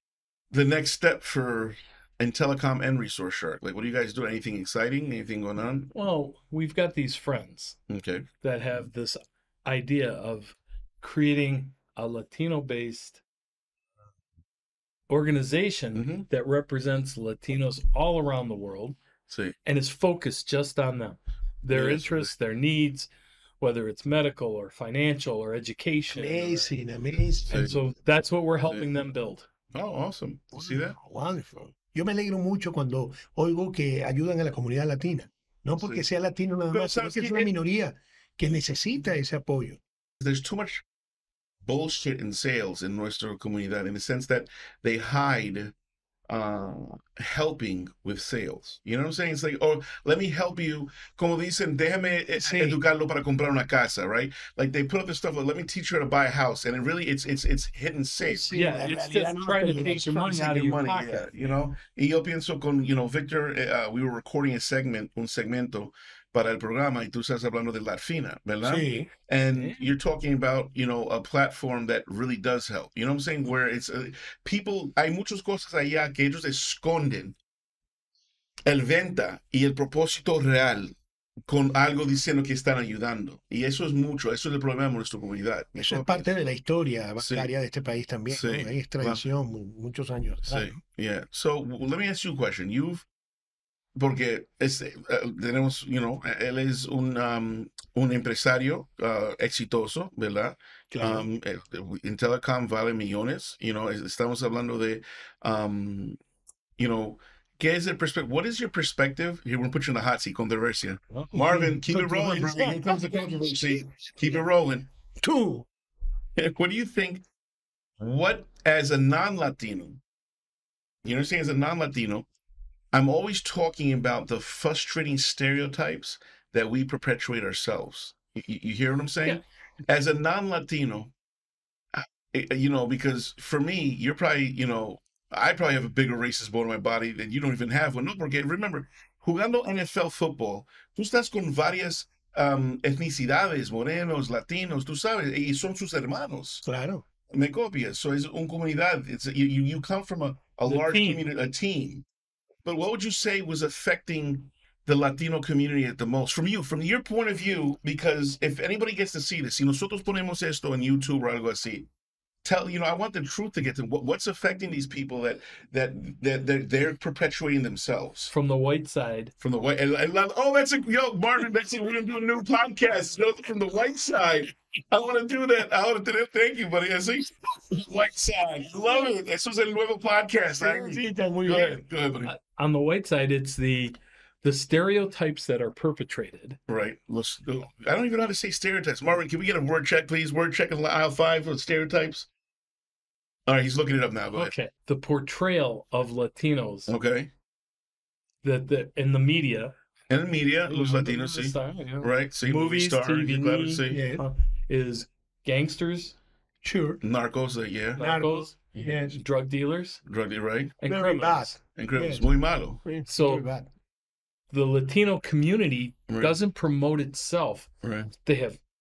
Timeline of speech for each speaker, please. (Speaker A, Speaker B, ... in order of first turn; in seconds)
Speaker A: 0.5-5.9, 7.9-8.3, 15.9-16.3, 19.3-19.6, 21.7-22.3, 27.5-27.8, 28.7-28.9, 29.7-31.0, 35.8-36.1, 36.7-37.5, 40.2-40.8, 41.6-45.8, 46.3-58.7, 59.8-77.4, 78.7-81.0, 81.5-86.3, 87.2-87.5, 88.3-89.3, 90.4-93.1, 94.0-106.2, 106.8-114.9, 116.4-117.2, 118.0-120.0, 121.0-122.3, 122.9-131.1, 132.0-146.6, 147.3-152.1, 152.7-161.9, 162.4-168.3, 169.4-182.3, 186.7-192.3, 193.5-194.5, 196.9-197.3, 200.1-204.0, 207.0-208.0, 210.1-210.8, 211.8-212.8, 216.1-216.3, 217.8-218.1
Speaker B: 5.9-7.8, 8.4-13.2, 15.1-19.0, 19.6-26.7, 27.5-29.5, 58.5-61.3, 69.6-69.9, 150.7-151.2, 168.3-169.3, 182.2-186.6, 194.3-196.9, 198.4-199.8, 200.7-206.2, 208.0-210.0, 210.8-211.6, 213.1-213.5, 214.5-217.7, 218.2-218.6
Speaker C: 26.1-27.8, 30.6-39.8, 52.4-52.8, 58.2-60.2, 68.6-69.1, 85.8-90.8, 100.9-101.3, 111.3-114.4, 115.2-115.7, 146.6-147.0, 180.5-181.8, 203.9-204.3, 206.6-207.0, 208.0-209.2, 210.9-212.3, 212.8-213.7